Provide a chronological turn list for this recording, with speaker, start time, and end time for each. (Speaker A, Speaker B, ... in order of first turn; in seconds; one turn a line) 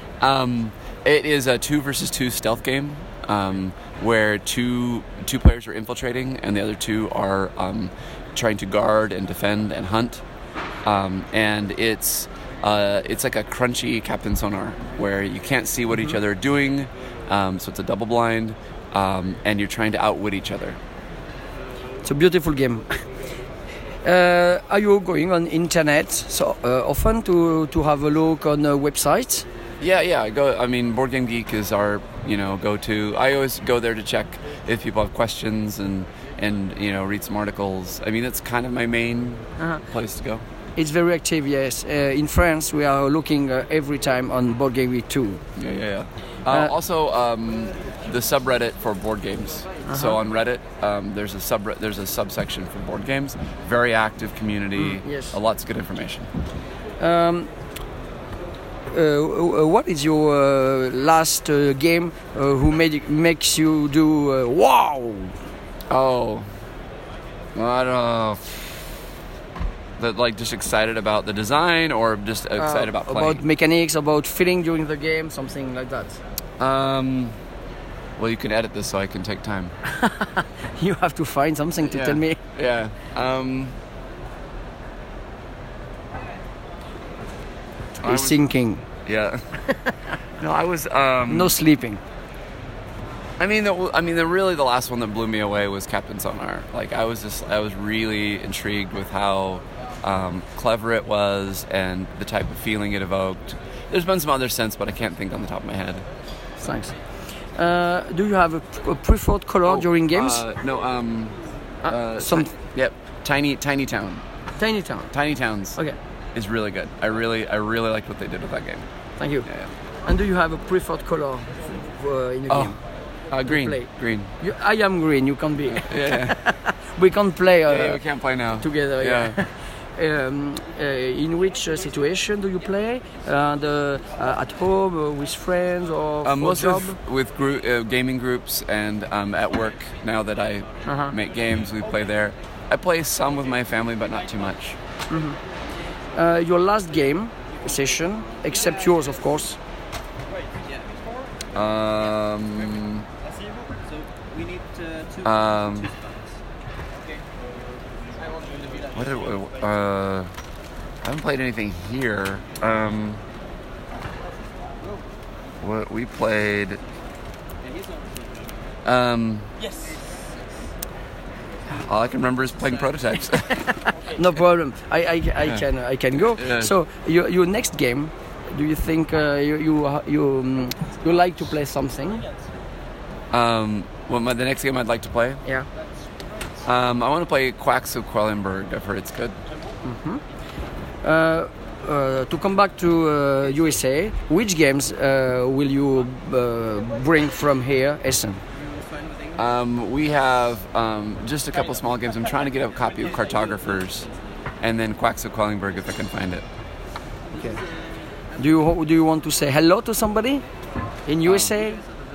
Speaker A: 0.2-10.2
Speaker A: 10.8-20.8
Speaker B: 15.9-16.1
Speaker B: 22.0-22.9
Speaker B: 24.0-29.4
Speaker A: 29.8-40.4
Speaker B: 40.8-45.4
Speaker A: 45.6-56.3
Speaker B: 46.5-46.7
Speaker B: 49.9-50.2
Speaker B: 54.8-55.3
Speaker B: 57.0-57.5
Speaker B: 58.9-65.3
Speaker A: 65.9-66.5
Speaker A: 67.5-68.8
Speaker A: 70.0-73.4
Speaker B: 72.6-76.2
Speaker A: 76.6-77.3
Speaker A: 78.2-79.7
Speaker B: 80.0-82.4
Speaker A: 81.9-83.7
Speaker B: 88.0-88.8
Speaker A: 88.0-88.4
Speaker A: 89.0-89.4
Speaker A: 90.4-91.5
Speaker B: 91.3-92.0
Speaker A: 93.4-106.0
Speaker B: 106.6-106.9
Speaker B: 107.6-110.4
Speaker A: 109.7-114.2
Speaker B: 111.8-112.5
Speaker B: 114.6-115.1
Speaker A: 115.1-115.8
Speaker A: 116.3-118.8
Speaker B: 119.2-119.5
Speaker B: 120.0-122.8
Speaker A: 123.3-124.3
Speaker B: 123.5-123.9
Speaker B: 124.4-128.0
Speaker A: 125.8-126.3
Speaker A: 127.7-129.3
Speaker B: 128.6-137.0
Speaker A: 136.2-144.8
Speaker B: 140.8-141.1
Speaker B: 145.1-145.4
Speaker B: 146.1-149.6
Speaker A: 151.5-153.0
Speaker A: 155.2-155.9
Speaker A: 158.9-160.3
Speaker A: 161.0-163.2
Speaker A: 165.6-166.8
Speaker A: 168.8-169.5
Speaker A: 171.8-173.5
Speaker B: 174.1-182.2
Speaker A: 176.4-176.7
Speaker A: 183.3-185.4
Speaker A: 186.6-189.4
Speaker B: 189.8-190.2
Speaker B: 191.0-198.4
Speaker A: 199.3-204.1
Speaker A: 204.6-206.4
Speaker B: 208.4-210.4
Speaker B: 211.1-211.8
Speaker A: 211.2-211.5